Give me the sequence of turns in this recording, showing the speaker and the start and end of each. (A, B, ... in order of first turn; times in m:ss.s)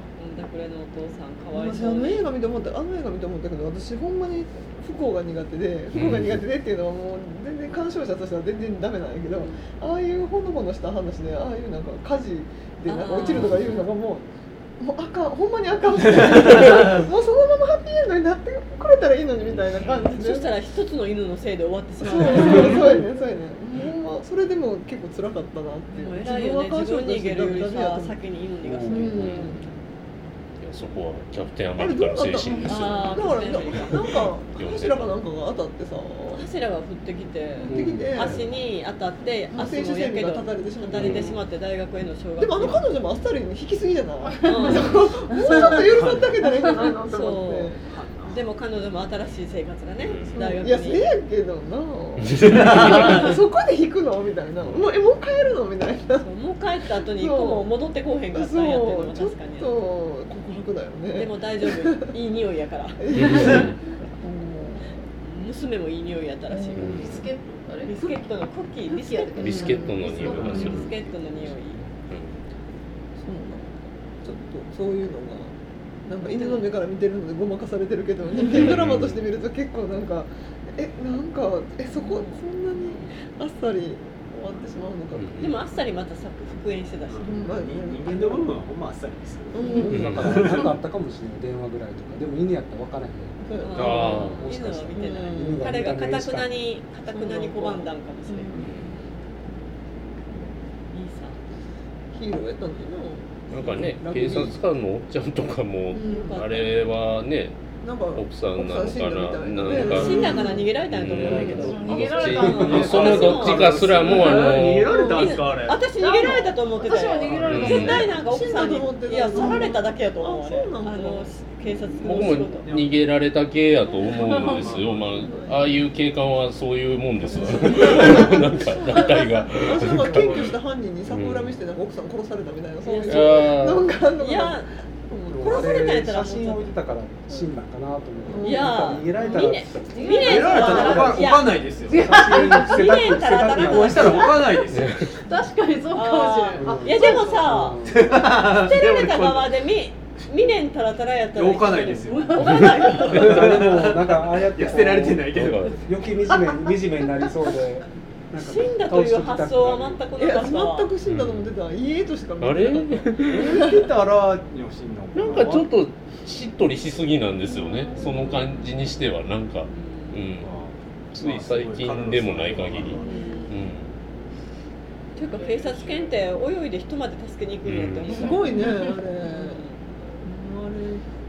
0:00.2-0:02.2 A
0:01.5-0:14.2 B
0:05.9-0:06.4 C
0:12.8-0:13.7 A
0:13.4-0:13.8 C
0:14.8-0:20.5 B
0:16.2-0:16.9 D
0:19.8-0:23.0 A
0:22.0-0:28.2 B
0:25.9-0:29.7 A
0:28.6-0:29.5 E
0:28.8-0:29.7 B
0:29.2-0:29.5 C
0:30.6-0:35.2 C
0:31.8-0:36.4 B
0:32.6-0:34.2 A
0:36.3-0:42.8 A
0:37.7-0:38.4 E
0:37.7-0:38.5 B
0:39.5-0:41.4 B
0:41.0-0:41.3 C
0:42.4-0:47.8 B
0:44.4-0:45.9 A
0:45.6-0:46.4 D
0:46.8-0:47.7 A
0:47.8-0:48.5 D
0:48.3-0:51.1 A
0:50.0-0:50.4 C
0:50.3-0:56.3 B
0:52.2-0:53.4 C
0:52.4-0:53.2 D
0:54.6-0:54.9 C
0:56.2-0:59.8 A
0:57.1-0:57.7 B
0:58.3-1:02.1 B
1:01.1-1:03.6 A
1:03.0-1:05.1 B
1:03.1-1:03.7 C
1:05.2-1:07.2 A
1:06.5-1:07.2 B
1:06.8-1:07.2 C
1:06.8-1:08.2 F
1:07.8-1:11.8 A
1:08.9-1:10.9 F
1:09.4-1:10.9 C
1:09.4-1:10.9 B
1:12.1-1:12.4 C
1:13.2-1:15.5 B
1:16.1-1:25.6 B
1:16.2-1:16.7 A
1:18.5-1:19.2 C
1:21.9-1:23.1 A
1:25.1-1:25.5 C
1:25.4-1:27.5 A
1:27.1-1:30.6 D
1:27.2-1:28.6 B
1:29.5-1:30.6 B
1:29.8-1:36.6 E
1:29.9-1:30.6 C
1:33.4-1:34.3 B
1:33.6-1:38.7 A
1:33.8-1:34.4 C
1:34.9-1:35.7 B
1:37.1-1:38.9 B
1:38.6-1:38.9 C
1:40.9-1:41.4 A
1:42.1-1:44.6 B
1:43.5-1:47.6 C
1:45.9-1:46.4 B
1:46.0-1:46.8 A
1:47.8-1:50.7 B
1:48.1-1:55.1 C
1:49.7-2:02.7 A
1:51.2-1:52.0 E
1:51.3-1:51.6 B
1:51.6-1:53.4 F
1:52.5-1:55.9 D
1:54.8-1:55.4 B
1:56.0-1:58.2 F
1:57.2-1:57.6 D
1:57.3-1:58.1 C
1:58.0-2:02.4 B
1:59.3-1:59.6 F
2:02.0-2:10.5 C
2:02.6-2:03.0 D
2:04.1-2:04.7 F
2:04.5-2:05.3 D
2:05.2-2:05.8 B
2:07.3-2:15.7 B
2:07.7-2:08.2 A
2:11.0-2:11.5 C
2:12.8-2:13.6 A
2:13.1-2:13.9 C
2:14.2-2:14.7 A
2:15.3-2:19.9 E
2:15.4-2:16.7 A
2:18.3-2:18.9 B
2:18.4-2:24.5 A
2:19.9-2:22.9 F
2:20.1-2:22.3 D
2:20.8-2:21.2 E
2:21.9-2:24.4 E
2:23.6-2:25.1 D
2:24.7-2:25.1 C
2:25.2-2:27.6 F
2:25.9-2:33.6 A
2:26.5-2:28.1 E
2:27.9-2:29.6 D
2:31.3-2:35.8 D
2:32.2-2:32.7 F
2:33.0-2:40.0 E
2:35.3-2:35.8 C
2:38.4-2:40.9 A
2:40.2-2:43.9 B
2:41.0-2:41.5 C
2:42.4-2:43.6 C
2:43.2-2:45.7 D
2:45.1-2:50.6 C
2:47.5-2:48.4 B
2:48.0-2:48.7 A
2:49.7-2:50.2 A
2:50.3-2:53.3 D
2:51.1-2:53.9 C
2:53.0-2:53.6 A
2:53.1-2:53.3 B
2:55.2-2:58.7 A
2:55.6-2:55.9 D
2:57.6-2:58.3 C
2:58.1-2:59.7 B
2:59.2-2:59.8 A
3:00.2-3:01.0 B